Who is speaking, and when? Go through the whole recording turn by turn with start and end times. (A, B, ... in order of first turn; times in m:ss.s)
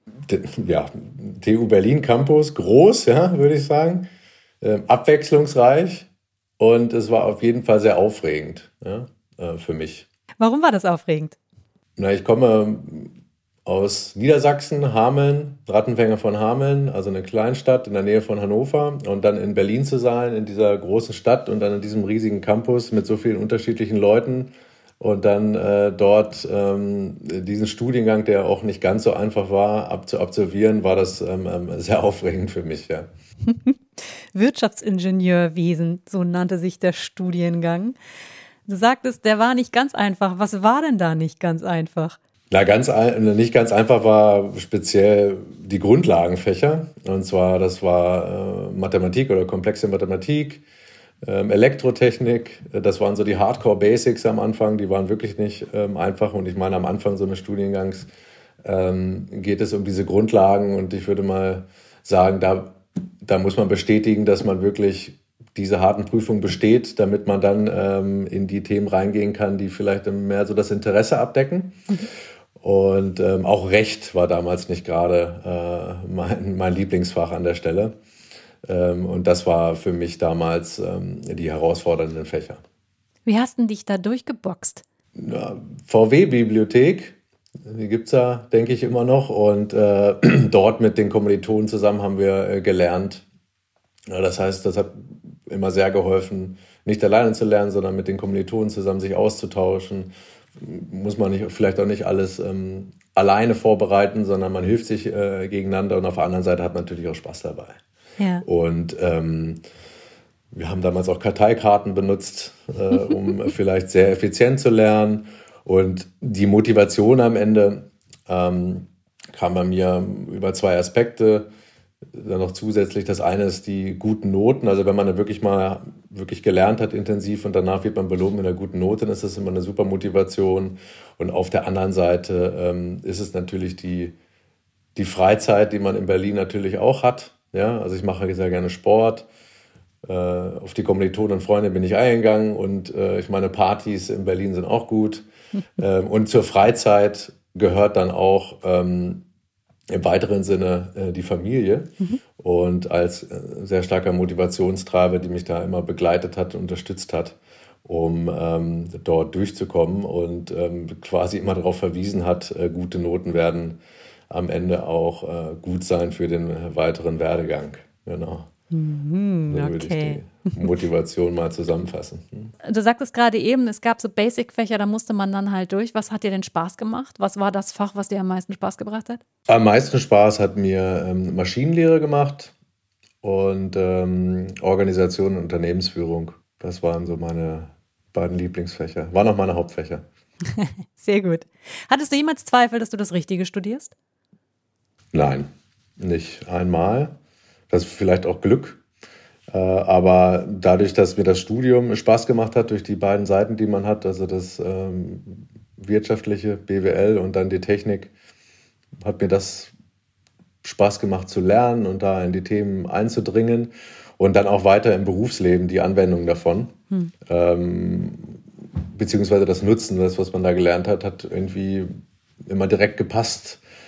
0:00.3-0:04.1 A
0:04.6-0:10.1 A
0:10.4-0:11.4 B
0:12.0-0:13.1 A
0:13.6-0:33.1 A
0:33.4-0:38.0 B
0:38.7-0:42.2 B
0:42.5-0:50.6 A
0:51.2-0:58.1 A
0:58.6-1:11.9 A
1:12.6-1:18.0 A
1:18.6-1:22.6 A
1:23.3-1:24.8 B
1:25.2-1:33.2 A
1:34.1-1:47.8 A
1:48.2-1:48.4 B
1:48.4-1:49.6 A
1:50.5-2:01.5 A
2:02.1-2:14.1 A
2:15.0-2:19.3 A
2:20.0-2:25.2 A
2:25.8-2:29.3 A
2:29.9-2:48.5 A
2:48.7-2:50.2 B
2:49.5-2:52.5 A
2:52.6-2:59.2 B
2:59.5-3:02.5 A
3:03.2-3:10.0 A
3:10.5-3:13.9 B
3:15.1-3:17.2 A
3:17.7-3:18.8 A
3:19.5-3:28.1 A
3:29.0-3:29.7 A
3:30.6-3:36.8 A
3:37.3-3:41.9 A
3:42.5-3:43.6 A